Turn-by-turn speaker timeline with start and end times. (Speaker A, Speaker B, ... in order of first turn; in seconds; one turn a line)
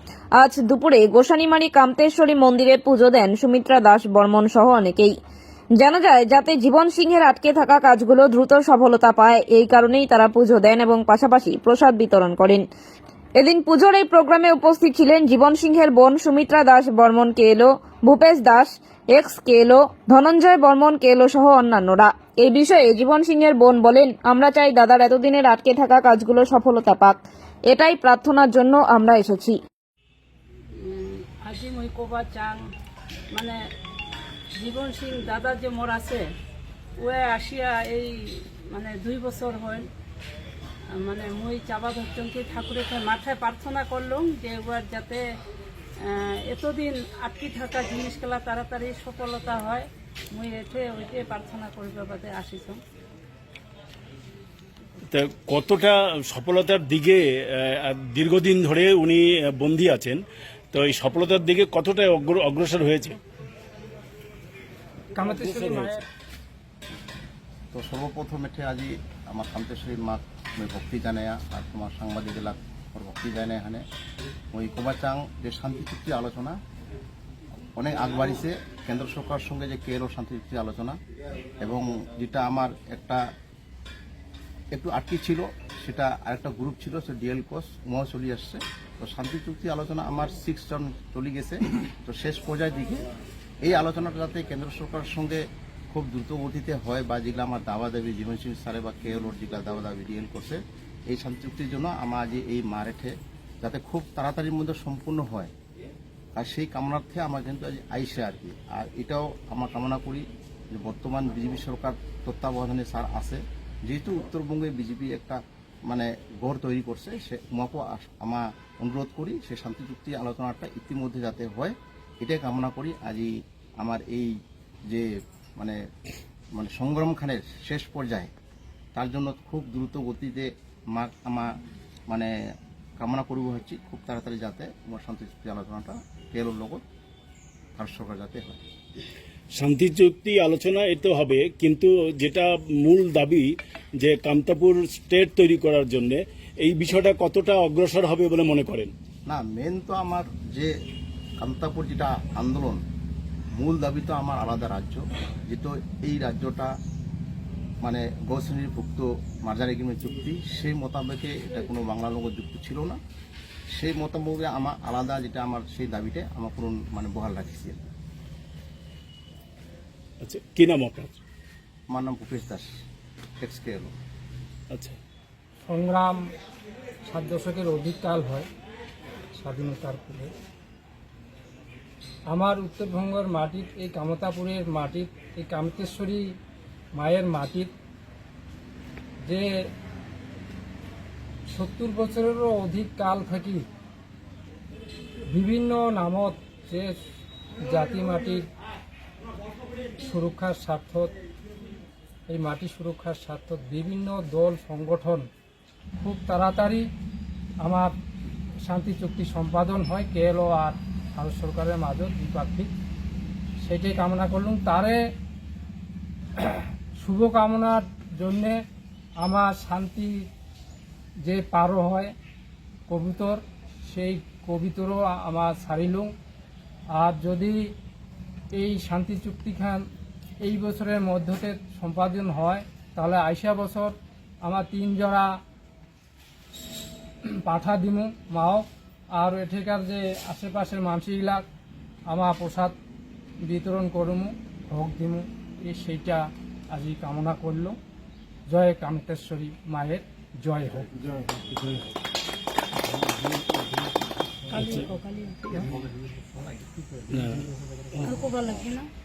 Speaker A: 0.4-5.1
Speaker A: 5.8-12.7
Speaker A: 13.4-27.2
Speaker A: 27.7-29.6
Speaker B: 30.8-32.6
Speaker B: 34.6-36.2
Speaker B: 37.0-38.1
Speaker B: 38.7-39.9
Speaker B: 41.0-45.2
Speaker B: 46.0-52.8
Speaker C: 55.1-60.2
Speaker C: 60.7-63.2
Speaker D: 65.2-66.0
Speaker C: 65.4-66.0
Speaker E: 67.7-73.8
Speaker E: 74.5-76.6
Speaker E: 77.8-81.0
Speaker E: 81.6-83.2
Speaker E: 84.7-93.0
Speaker E: 93.6-105.5
Speaker E: 106.4-124.3
Speaker E: 126.5-128.3
Speaker E: 128.9-131.5
Speaker E: 133.0-136.8
Speaker E: 137.8-138.6
Speaker C: 139.6-143.5
Speaker C: 144.0-148.9
Speaker E: 149.3-150.7
Speaker E: 151.4-152.8
Speaker E: 153.5-156.7
Speaker E: 157.8-163.0
Speaker E: 163.7-167.9
Speaker C: 170.2-171.2
Speaker E: 171.9-172.6
Speaker E: 173.4-173.9
Speaker C: 174.7-175.0
Speaker D: 175.6-176.2
Speaker D: 177.1-178.5
Speaker D: 179.3-180.3
Speaker D: 182.3-186.2
Speaker D: 187.0-187.7
Speaker D: 189.2-189.5
Speaker D: 191.5-193.6
Speaker D: 195.3-196.9
Speaker D: 197.6-198.4
Speaker D: 200.0-201.1
Speaker D: 202.3-205.3
Speaker D: 206.0-206.9
Speaker D: 207.6-207.9
Speaker D: 208.6-212.7
Speaker D: 213.6-215.0
Speaker D: 217.0-218.6
Speaker D: 219.2-220.3
Speaker D: 221.2-222.1
Speaker D: 222.9-226.1
Speaker D: 226.9-227.7
Speaker D: 228.6-229.8
Speaker D: 230.4-235.3
Speaker D: 237.4-241.4
Speaker D: 242.1-242.8
Speaker D: 243.4-247.8
Speaker D: 248.5-251.0
Speaker B: 254.5-255.7
Speaker C: 254.5-254.9
Speaker C: 257.1-258.0
Speaker B: 258.0-258.9